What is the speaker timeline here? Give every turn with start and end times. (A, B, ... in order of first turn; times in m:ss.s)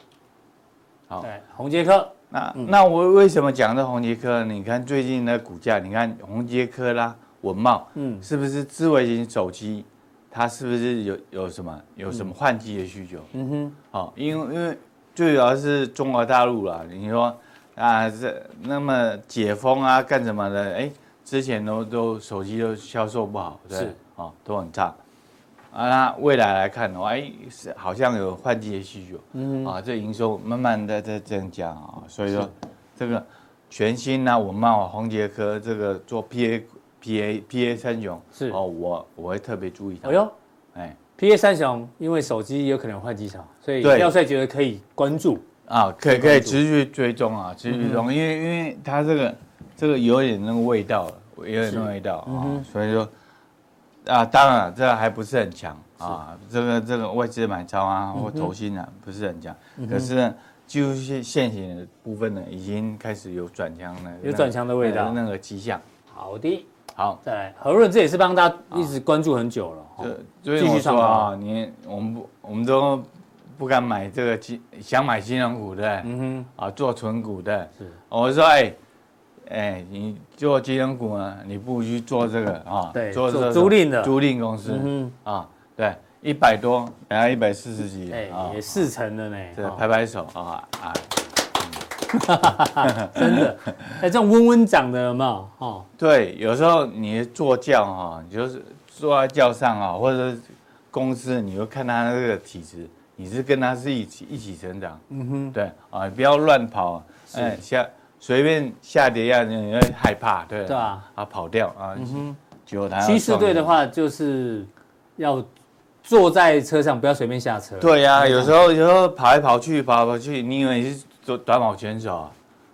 0:01.2-0:02.7 A
0:02.3-0:13.3 B
0:07.9-0:08.2 A
0:13.3-0:13.8 A
0:13.9-0:25.0 B
0:25.7-0:41.0 B
0:29.3-0:29.7 A
0:40.0-0:40.3 A
0:41.2-0:45.4 A
0:43.8-0:44.1 B
0:45.7-0:53.1 B
0:46.1-0:46.6 A
0:47.7-0:48.0 A
0:51.6-0:52.6 A
0:54.0-1:05.8 B
0:58.1-0:58.5 A
0:59.8-1:00.1 A
1:04.2-1:05.2 A
1:06.1-1:06.7 A
1:06.9-1:07.2 B
1:07.2-1:11.3 A
1:10.0-1:18.8 B
1:16.0-1:16.5 A
1:19.4-1:28.9 B
1:22.9-1:25.1 A
1:28.1-1:29.8 A
1:29.5-1:31.8 B
1:32.1-1:35.9 A
1:32.8-1:33.5 B
1:36.0-1:45.0 B
1:45.1-1:45.5 A
1:45.5-1:53.8 B
1:47.3-1:47.6 A
1:50.7-1:51.0 A
1:52.0-1:52.4 A
1:53.0-1:55.5 A
1:56.0-1:58.6 A
1:57.8-2:02.3 B